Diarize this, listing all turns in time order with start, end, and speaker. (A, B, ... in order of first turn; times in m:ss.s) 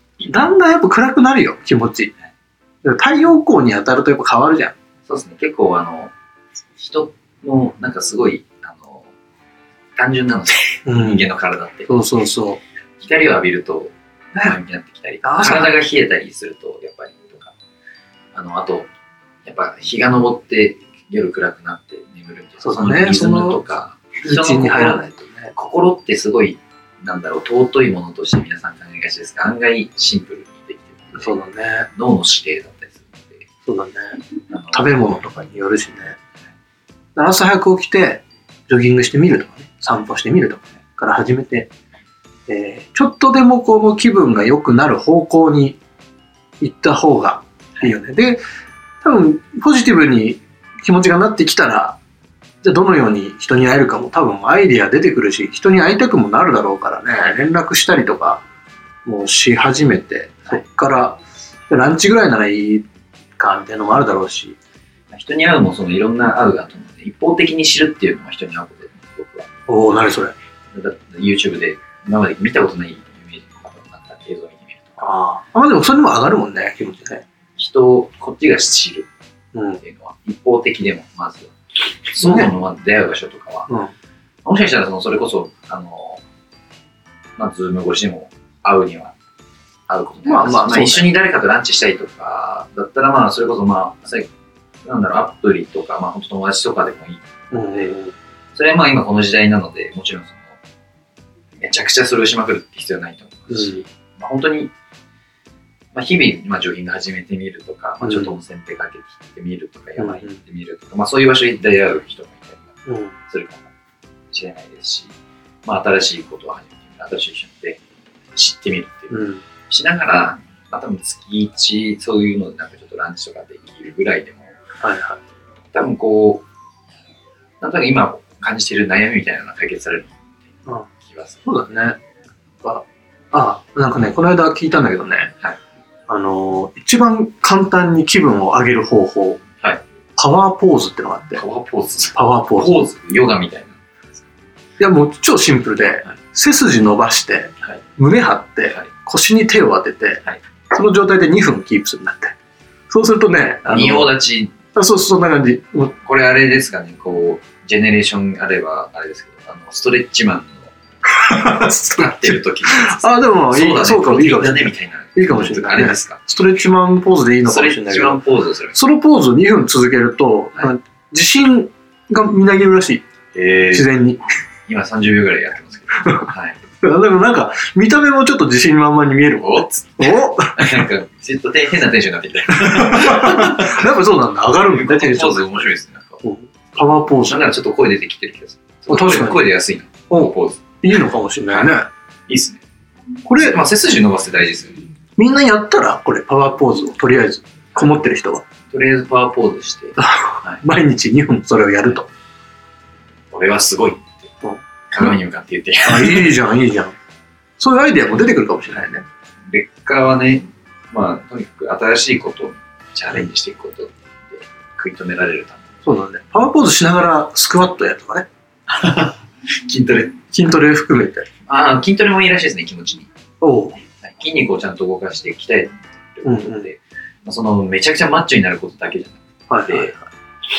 0:00.2-0:02.1 A
0:02.8-0:04.8 A
0:05.1-0:06.1 B
0:06.8-0:09.1 B
0:10.0-0:11.9 B
0:10.9-0:11.2 A
0:11.9-0:12.6 A
0:13.0-0:17.5 B
0:15.2-0:15.7 A
0:18.3-0:18.9 B
0:19.4-0:25.0 B
0:22.6-0:23.6 A
0:24.2-0:25.5 A
0:25.5-0:31.4 B
0:31.1-0:31.9 A
0:31.9-0:33.4 B
0:33.7-0:34.2 A
0:34.5-0:34.9 B
0:34.7-0:36.2 A
0:37.2-0:41.7 A
0:42.5-0:45.8 A
0:46.6-0:48.4 A
0:49.0-0:52.0 A
0:52.6-0:58.4 A
0:59.0-1:02.9 A
1:03.4-1:04.6 A
1:05.1-1:09.5 B
1:09.7-1:10.4 A
1:10.7-1:15.1 B
1:15.0-1:17.2 A
1:17.6-1:19.1 B
1:19.6-1:19.8 A
1:19.8-1:21.5 B
1:22.1-1:23.7 B
1:22.2-1:22.5 A
1:24.4-1:26.2 B
1:27.4-1:29.2 B
1:29.9-1:34.3 B
1:30.2-1:31.1 A
1:34.8-1:37.9 B
1:37.5-1:38.2 A
1:38.5-1:40.6 B
1:41.6-1:44.7 B
1:43.5-1:43.8 A
1:45.9-1:53.7 B
1:48.0-1:48.4 A
1:50.0-1:50.4 A
1:52.9-1:53.1 A
1:54.3-1:57.8 B
1:58.4-2:04.6 B
1:59.1-1:59.4 A
2:04.8-2:05.2 A
2:05.7-2:06.4 B
2:07.6-2:11.4 B
2:11.5-2:12.0 A
2:12.6-2:15.3 A
2:16.1-2:19.4 A
2:20.2-2:21.4 A
2:21.4-2:23.8 B
2:22.2-2:22.7 A
2:24.8-2:32.4 A
2:32.9-2:34.2 A
2:33.7-2:34.6 B
2:34.8-2:36.0 A
2:36.0-2:40.7 B
2:41.2-2:48.2 A
2:41.9-2:46.2 B
2:47.4-2:48.8 B
2:48.7-2:53.0 A
2:53.3-2:53.9 B
2:53.7-2:54.2 A
2:54.7-2:56.6 B
2:56.8-3:00.6 A
2:59.4-3:03.9 B
3:02.5-3:05.7 A
3:04.7-3:06.2 B
3:06.2-3:07.4 A
3:07.2-3:10.7 B
3:08.9-3:09.4 A
3:10.1-3:11.9 A
3:12.3-3:12.6 B
3:13.2-3:13.6 A
3:13.3-3:14.9 B
3:15.2-3:18.4 A
3:18.7-3:20.6 B
3:20.0-3:22.1 A
3:23.3-3:24.3 B
3:24.4-3:25.2 A
3:24.9-3:26.3 B
3:25.8-3:27.0 A
3:27.6-3:29.0 A
3:29.5-3:35.7 B
3:35.8-3:38.3 A
3:38.7-3:40.2 B
3:40.3-3:41.3 A
3:41.5-3:43.1 B
3:43.4-3:43.8 A
3:44.0-3:50.0 B
3:46.2-3:46.7 A
3:49.5-3:50.0 A